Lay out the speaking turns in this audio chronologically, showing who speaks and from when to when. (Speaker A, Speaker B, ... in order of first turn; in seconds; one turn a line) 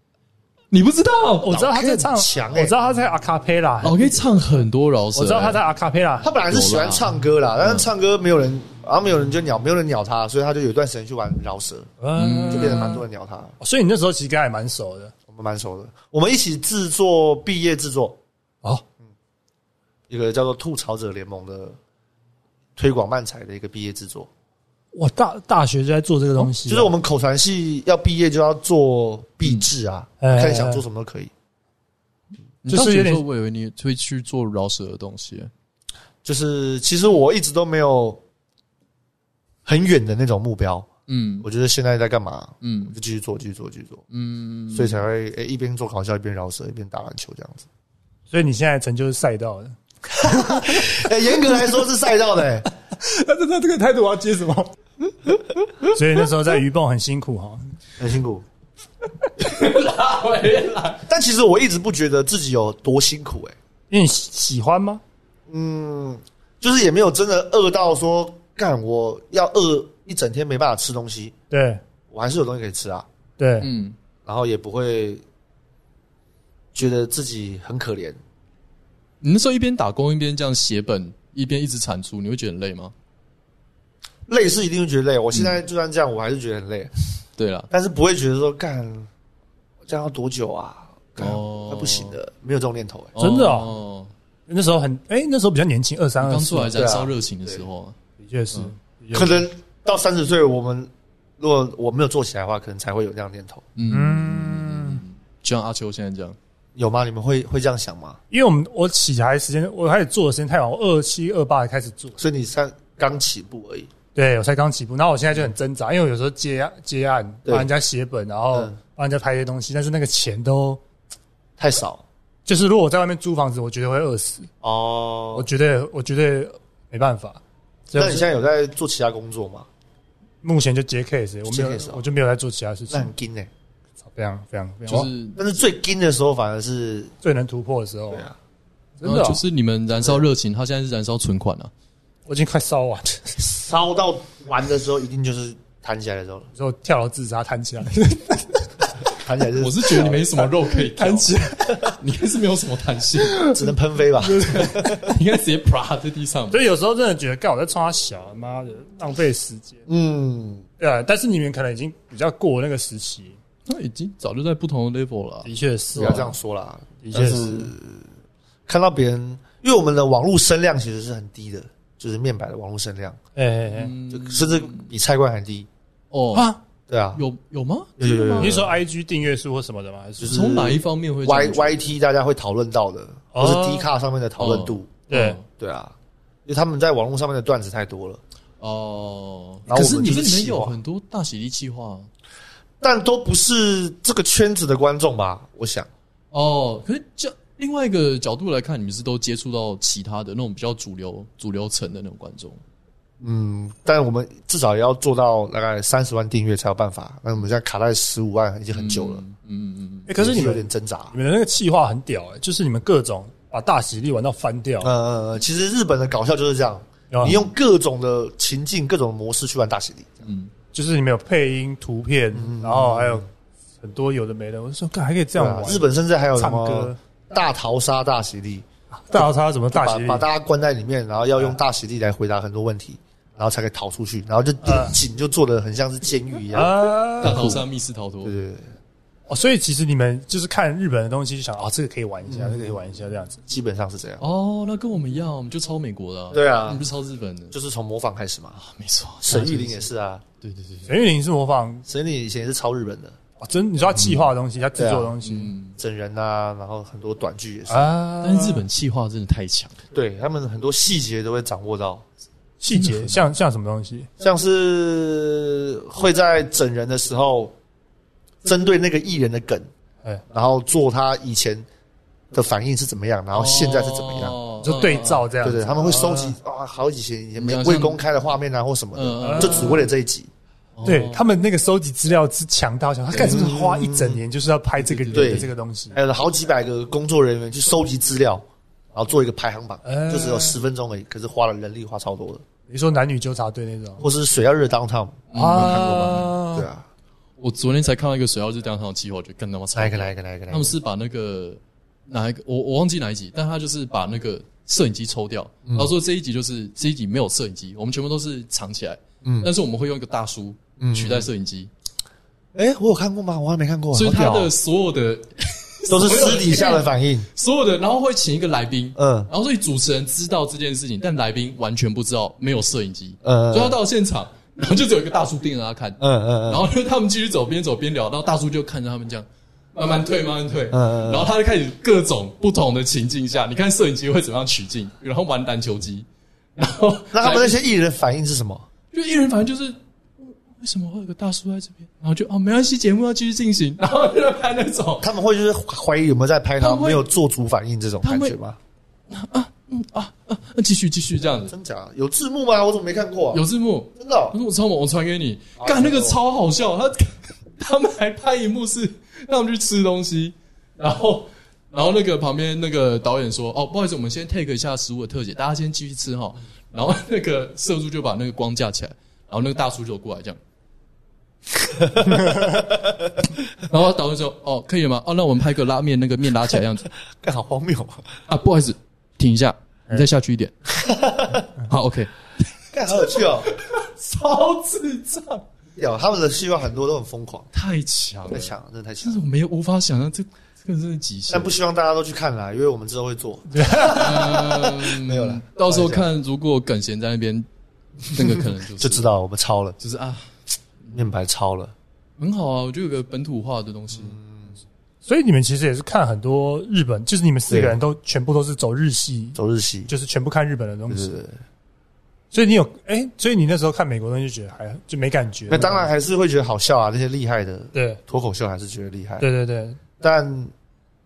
Speaker A: 0.7-1.5
Speaker B: 1.4-4.2
Speaker C: 1.5-2.8
Speaker A: 3.8-5.6
Speaker B: 5.2-6.3
Speaker C: 6.2-11.9
Speaker A: 6.5-7.1
Speaker A: 7.6-7.9
Speaker B: 12.0-13.0
Speaker A: 12.2-13.0
Speaker C: 12.5-13.5
Speaker B: 13.6-15.1
Speaker C: 15.3-18.2
Speaker C: 20.1-21.8
Speaker C: 22.8-24.3
Speaker B: 24.9-26.9
Speaker C: 26.6-31.3
Speaker B: 30.2-30.8
Speaker A: 32.6-35.5
Speaker B: 32.7-33.2
Speaker C: 36.2-38.2
Speaker C: 39.7-40.9
Speaker A: 41.1-41.5
Speaker C: 41.4-44.0
Speaker A: 42.6-43.0
Speaker A: 44.1-45.0
Speaker C: 44.7-47.7
Speaker B: 48.3-51.0
Speaker C: 50.1-52.7
Speaker B: 53.0-54.7
Speaker B: 55.8-57.6
Speaker C: 58.0-58.5
Speaker A: 59.4-61.1
Speaker C: 61.1-63.5
Speaker B: 63.9-65.0
Speaker C: 65.5-71.3
Speaker B: 71.5-71.8
Speaker C: 72.1-73.1
Speaker B: 73.4-73.7
Speaker A: 73.6-74.0
Speaker C: 74.3-75.2
Speaker C: 76.7-78.2
Speaker A: 79.2-82.9
Speaker C: 84.3-86.9
Speaker A: 85.3-85.6
Speaker A: 87.4-87.7
Speaker C: 87.7-89.1
Speaker C: 89.9-93.1
Speaker A: 91.2-92.2
Speaker A: 93.2-94.1
Speaker B: 93.2-93.7
Speaker B: 94.5-96.7
Speaker A: 96.2-98.0
Speaker C: 96.8-97.7
Speaker B: 98.2-99.5
Speaker C: 99.1-103.6
Speaker A: 103.8-106.4
Speaker B: 103.9-105.0
Speaker C: 106.8-108.2
Speaker B: 108.3-112.2
Speaker C: 112.2-113.9
Speaker B: 114.2-120.8
Speaker C: 121.6-122.0
Speaker B: 122.5-124.5
Speaker C: 124.6-125.5
Speaker B: 125.3-128.3
Speaker C: 128.0-129.7
Speaker B: 130.4-133.1
Speaker C: 131.5-132.0
Speaker C: 132.9-133.5
Speaker B: 134.0-135.1
Speaker A: 134.9-135.4
Speaker C: 135.4-137.1
Speaker B: 137.2-138.3
Speaker C: 138.1-138.4
Speaker B: 139.0-139.4
Speaker A: 139.0-141.7
Speaker C: 140.0-140.2
Speaker B: 142.3-143.4
Speaker C: 143.4-146.5
Speaker B: 146.6-148.7
Speaker C: 149.1-150.2
Speaker A: 149.6-153.5
Speaker B: 150.7-151.9
Speaker B: 153.3-153.6
Speaker C: 153.5-155.1
Speaker B: 154.2-154.9
Speaker A: 154.4-156.6
Speaker B: 156.5-159.8
Speaker C: 159.9-160.7
Speaker B: 160.8-163.4
Speaker A: 163.7-165.5
Speaker B: 165.4-166.3
Speaker C: 165.9-168.1
Speaker B: 167.0-167.7
Speaker C: 168.7-173.2
Speaker B: 173.4-173.9
Speaker A: 173.7-174.9
Speaker C: 174.1-175.7
Speaker A: 176.1-176.5
Speaker C: 176.9-177.2
Speaker A: 177.2-178.6
Speaker C: 178.0-178.8
Speaker B: 178.4-180.5
Speaker C: 180.2-185.9
Speaker A: 180.2-181.9
Speaker B: 183.3-183.9
Speaker A: 184.4-185.4
Speaker B: 185.1-185.4
Speaker C: 186.5-188.2
Speaker A: 188.6-192.1
Speaker C: 189.7-190.8
Speaker B: 189.7-190.3
Speaker C: 192.8-195.9
Speaker A: 196.3-202.6
Speaker C: 203.2-209.2
Speaker A: 208.7-210.1
Speaker B: 210.1-214.9
Speaker C: 210.2-211.1
Speaker C: 214.8-220.3
Speaker B: 217.1-217.4
Speaker B: 220.7-223.3
Speaker C: 222.3-223.3
Speaker B: 223.8-227.0
Speaker C: 225.4-228.7
Speaker B: 229.1-230.3
Speaker C: 229.7-237.5
Speaker B: 234.6-235.0
Speaker B: 236.5-237.6
Speaker A: 237.2-238.3
Speaker C: 238.2-238.7
Speaker B: 239.3-243.4
Speaker C: 242.3-242.8
Speaker C: 243.4-244.2
Speaker A: 244.2-247.5
Speaker C: 246.3-246.8
Speaker C: 247.5-248.6
Speaker A: 248.6-249.8
Speaker C: 249.2-250.2
Speaker A: 250.4-250.9
Speaker B: 250.9-251.8
Speaker C: 251.9-253.2
Speaker B: 253.4-255.5
Speaker A: 253.9-254.3
Speaker C: 254.8-255.2
Speaker A: 255.2-255.8
Speaker C: 255.8-257.9
Speaker B: 257.7-258.6
Speaker A: 258.2-259.8
Speaker C: 259.9-262.1
Speaker B: 262.6-264.1
Speaker A: 262.7-263.2
Speaker C: 264.2-267.6
Speaker C: 268.4-269.7
Speaker C: 270.3-271.7
Speaker C: 272.3-274.4
Speaker A: 273.3-275.3
Speaker B: 274.6-276.4
Speaker C: 275.4-280.3
Speaker A: 277.4-278.0
Speaker A: 278.9-279.9
Speaker B: 279.2-279.9
Speaker A: 280.8-281.2
Speaker B: 280.9-286.0
Speaker C: 283.1-284.2
Speaker A: 284.8-285.5
Speaker C: 285.1-292.4
Speaker B: 289.9-290.6
Speaker B: 292.7-294.0
Speaker C: 294.0-296.9
Speaker A: 295.3-296.3
Speaker B: 295.4-296.7
Speaker A: 297.4-311.7
Speaker C: 299.8-300.8
Speaker C: 305.7-305.9
Speaker C: 309.2-309.5
Speaker C: 310.8-311.3
Speaker C: 312.6-314.5
Speaker A: 313.9-336.1
Speaker C: 315.9-317.3
Speaker C: 319.0-319.3
Speaker C: 323.2-323.8
Speaker C: 326.0-326.7
Speaker C: 330.7-331.3
Speaker A: 336.6-337.6
Speaker C: 337.1-338.7
Speaker A: 338.9-345.1
Speaker C: 345.0-348.6
Speaker A: 346.6-347.1
Speaker A: 348.0-348.4
Speaker A: 349.1-351.5
Speaker C: 351.5-353.4
Speaker A: 353.3-370.4
Speaker C: 353.9-354.4
Speaker C: 355.6-356.2
Speaker C: 371.6-373.1
Speaker A: 373.6-376.9
Speaker C: 377.2-378.1
Speaker A: 378.3-380.5
Speaker C: 380.7-381.5
Speaker A: 381.6-382.1
Speaker C: 382.7-383.5
Speaker A: 382.9-385.4
Speaker C: 385.8-387.5
Speaker A: 387.5-391.6
Speaker C: 388.3-389.2
Speaker C: 391.3-396.1
Speaker B: 393.5-394.0
Speaker A: 393.8-397.5
Speaker A: 398.1-399.1
Speaker C: 398.2-399.8
Speaker A: 399.8-400.3
Speaker C: 400.9-401.7
Speaker A: 402.2-404.2
Speaker C: 403.9-404.5
Speaker B: 405.1-409.4
Speaker C: 407.5-407.8
Speaker C: 409.4-409.9
Speaker B: 409.9-411.1
Speaker C: 410.9-411.4
Speaker B: 412.3-415.9
Speaker C: 415.5-419.3
Speaker B: 417.7-418.0
Speaker B: 419.2-419.8
Speaker C: 420.0-420.5